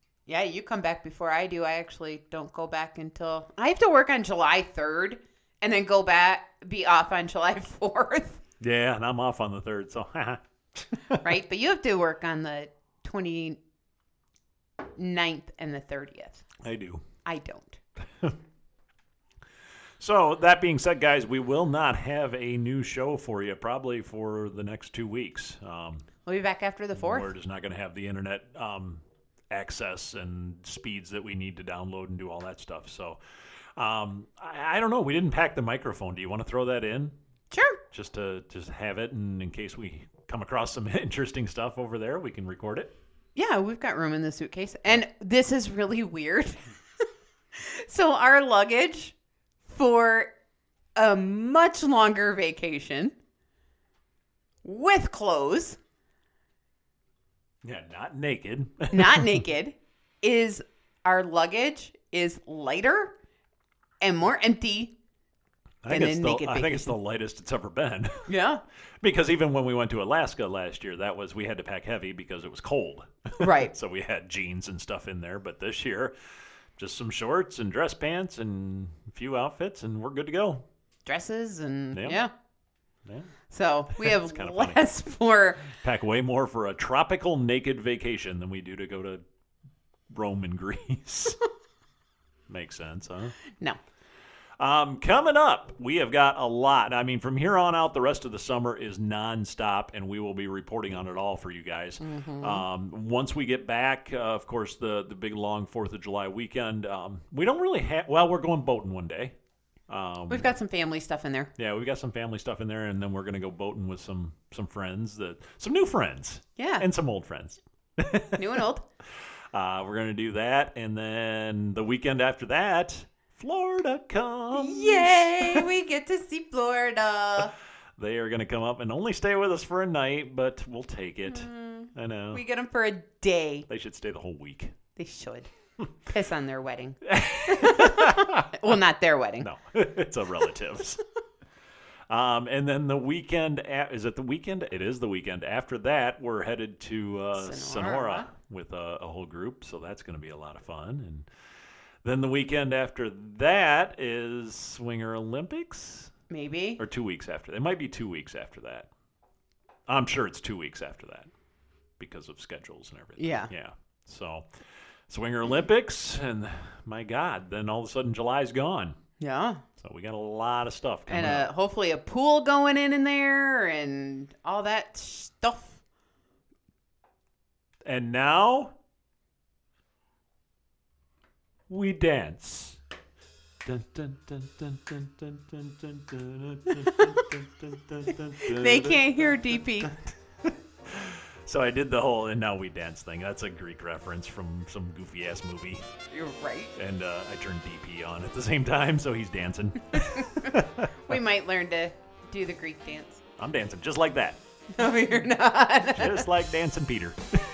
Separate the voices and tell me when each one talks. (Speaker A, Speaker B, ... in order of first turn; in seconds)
Speaker A: 0.3-8.4, 11.1-13.6, 15.0-16.4, 17.2-17.8, 26.2-27.3, 37.5-37.8, 43.4-46.6, 47.6-49.1, 49.6-50.3, 51.0-53.1, 54.6-55.8, 58.9-63.1, 64.0-65.0, 65.9-66.9, 68.3-68.6, 73.4-73.7, 81.0-82.3, 83.5-85.7, 102.0-102.7, 110.3-111.5, 116.6-116.9, 118.3-118.8, 124.5-127.5, 131.3-133.7, 135.0-135.5, 136.0-139.5, 147.3-148.3, 156.3-156.8, 163.2-163.5, 169.2-169.6, 171.1-175.8, 186.8-187.2, 188.4-189.9, 196.1-196.7, 200.0-200.5, 201.1-203.2, 204.7-206.3
Speaker B: 8.6-11.2, 16.6-17.0, 20.0-26.0, 26.9-33.2, 33.8-37.1, 37.9-42.9, 57.6-59.4, 65.8-68.3, 69.0-76.1, 76.8-80.6, 81.9-82.2, 83.0-83.3, 84.0-84.8, 85.7-89.2, 90.1-91.4, 92.5-93.4, 94.6-109.3, 109.9-110.5, 111.6-118.6, 119.5-125.7, 128.0-132.4, 133.7-134.8, 137.1-138.5, 139.4-141.0, 142.1-151.3, 152.0-156.1, 156.8-158.9, 159.9-161.3, 162.0-164.4, 165.1-168.9, 169.8-171.5, 177.9-178.7, 181.7-182.8, 183.6-195.9, 196.8-201.2, 203.4-204.4, 205.9-207.4